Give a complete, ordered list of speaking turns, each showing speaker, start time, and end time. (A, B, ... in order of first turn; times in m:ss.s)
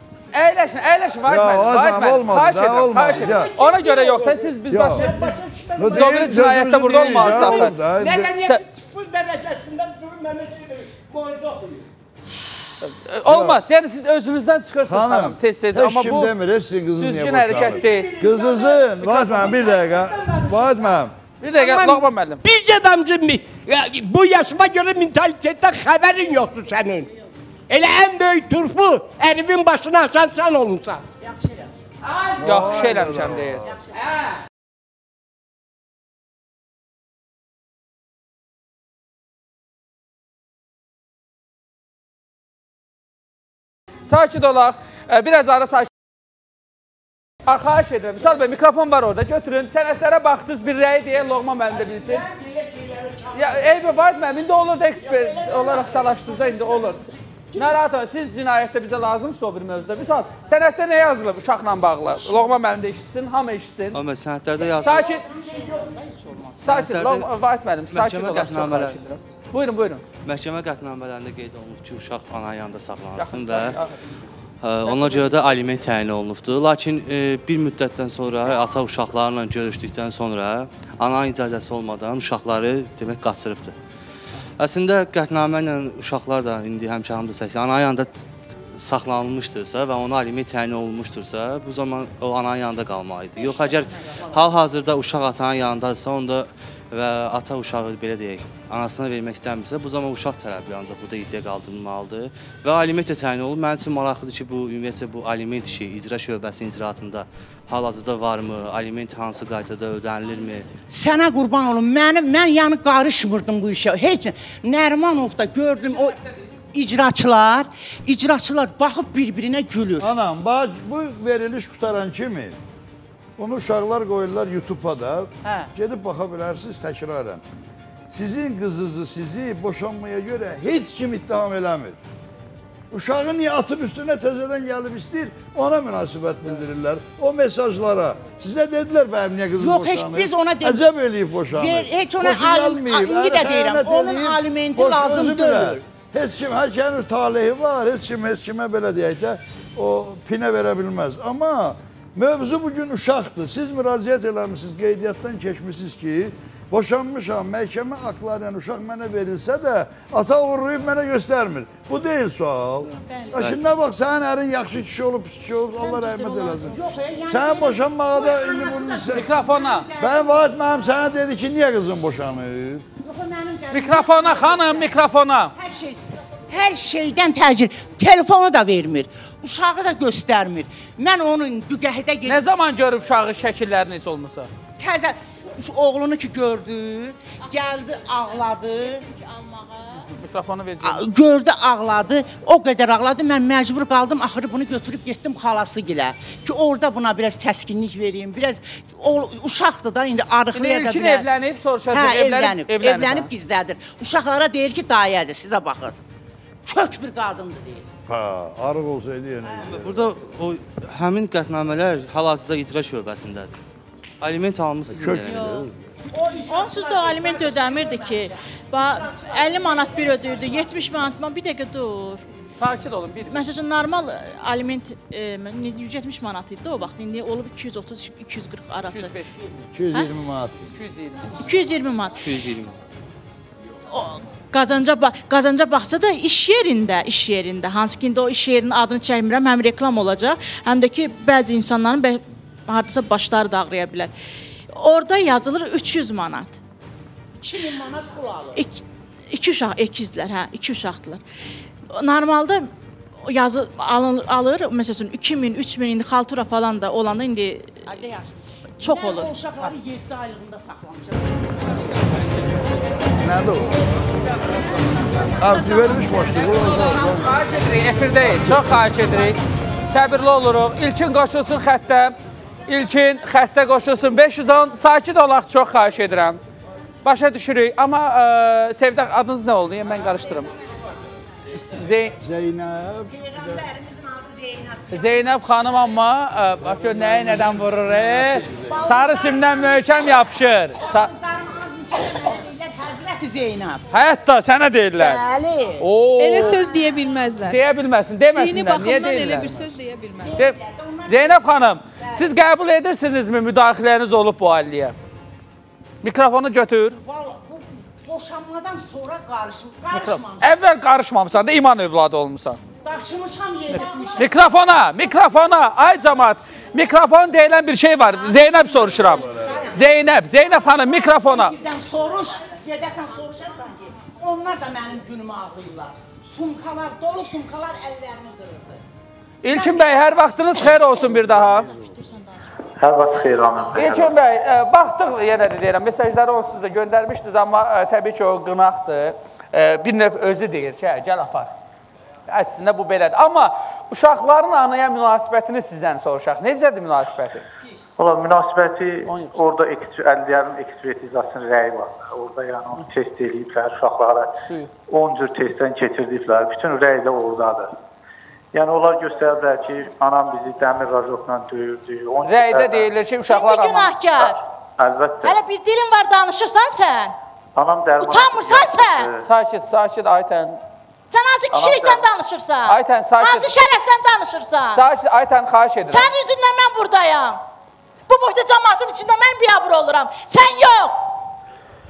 0:00.3-0:07.8 A
0:01.2-0:03.5 B
0:03.0-0:11.8 C
0:04.7-0:05.1 B
0:05.8-0:08.3 B
0:12.8-0:16.3 A
0:13.2-0:13.6 B
0:14.9-0:21.1 B
0:17.0-0:18.1 A
0:17.5-0:21.0 C
0:19.0-0:19.5 A
0:21.4-0:22.4 A
0:21.5-0:27.1 C
0:27.7-0:31.0 C
0:31.2-0:31.7 D
0:32.4-0:33.8 B
0:32.4-0:33.6 A
0:44.1-0:45.9 A
0:47.4-0:52.3 A
0:51.7-0:53.9 C
0:53.3-1:04.0 A
0:55.0-0:57.8 C
1:03.9-1:05.1 E
1:04.6-1:06.6 D
1:04.8-1:05.2 A
1:06.6-1:10.0 A
1:06.6-1:07.3 E
1:07.9-1:09.0 E
1:10.2-1:13.8 E
1:13.2-1:14.0 A
1:14.6-1:23.7 E
1:14.8-1:15.4 A
1:24.6-1:50.7 E
1:50.9-1:56.2 D
1:55.8-1:56.4 A
1:56.7-2:00.1 D
2:00.0-2:02.6 B
2:03.4-2:07.4 B
2:05.4-2:05.7 D
2:08.1-2:12.0 B
2:12.9-2:49.4 B
2:19.6-2:20.8 D
2:21.5-2:25.8 D
2:43.3-2:43.7 E
2:45.8-2:50.4 D
2:49.1-2:49.9 A
2:50.0-2:52.8 B
2:53.0-2:55.0 D
2:53.7-2:55.5 A
2:55.5-3:02.4 D
3:02.2-3:04.5 A
3:04.8-3:09.9 D
3:09.0-3:09.6 F
3:10.0-3:11.0 A
3:10.8-3:21.2 D
3:20.5-3:23.3 A
3:21.9-3:26.0 D
3:26.6-3:27.9 D
3:28.1-3:30.2 B
3:29.5-3:29.8 D
3:29.6-3:33.5 E
3:34.2-3:35.6 E
3:34.9-3:35.8 B
3:36.1-3:41.0 D
3:36.5-3:42.2 F
3:42.6-3:43.5 A
3:43.3-3:49.1 F
3:48.9-3:49.6 A
3:49.7-3:50.8 B
3:50.7-3:51.4 A
3:51.4-3:52.4 F
3:52.2-3:52.7 E
3:53.9-4:04.1 F
4:04.7-4:06.6 F
4:07.4-4:08.6 D
4:08.6-4:11.2 F
4:11.9-4:12.7 F
4:13.3-4:17.7 F
4:17.9-4:23.1 D
4:18.8-4:19.4 F
4:23.2-4:23.9 B
4:24.5-4:25.3 D
4:25.3-4:27.4 B
4:25.8-4:32.1 A
4:32.7-4:36.4 A
4:37.0-4:40.5 A
4:41.7-4:42.2 A
4:42.2-4:43.6 B
4:43.1-4:45.2 D
4:44.9-4:51.1 A
4:46.6-4:48.8 B
4:48.6-4:53.8 D
4:53.9-4:55.2 A
4:55.0-4:55.8 D
4:55.8-4:56.7 A
4:56.2-4:57.6 G
4:56.4-4:56.8 D
4:57.4-4:59.5 A
4:58.3-5:00.4 G
4:59.4-4:59.8 B
5:00.2-5:01.4 D
5:01.1-5:05.0 A
5:02.0-5:02.3 D
5:06.0-5:07.0 A
5:07.0-5:10.5 D
5:09.9-5:12.6 A
5:12.8-5:14.5 D
5:13.7-5:21.5 A
5:18.1-5:28.8 D
5:18.8-5:19.8 B
5:29.4-5:31.7 A
5:29.5-5:32.4 F
5:31.2-5:31.9 B
5:32.8-5:34.1 H
5:33.7-5:41.5 A
5:42.3-5:47.4 A
5:48.0-5:54.3 H
5:49.1-5:49.4 A
5:54.4-5:54.7 A
5:54.9-5:57.7 H
5:58.5-6:02.9 H
6:02.2-6:04.0 A
6:03.3-6:04.4 F
6:04.8-6:05.4 H
6:05.2-6:07.1 F
6:07.6-6:09.2 H
6:08.0-6:09.1 F
6:09.2-6:10.6 A
6:11.1-6:14.8 F
6:11.5-6:12.0 A
6:11.6-6:12.0 H
6:12.7-6:13.5 A
6:14.7-6:16.1 A
6:15.9-6:17.4 F
6:18.1-6:21.0 F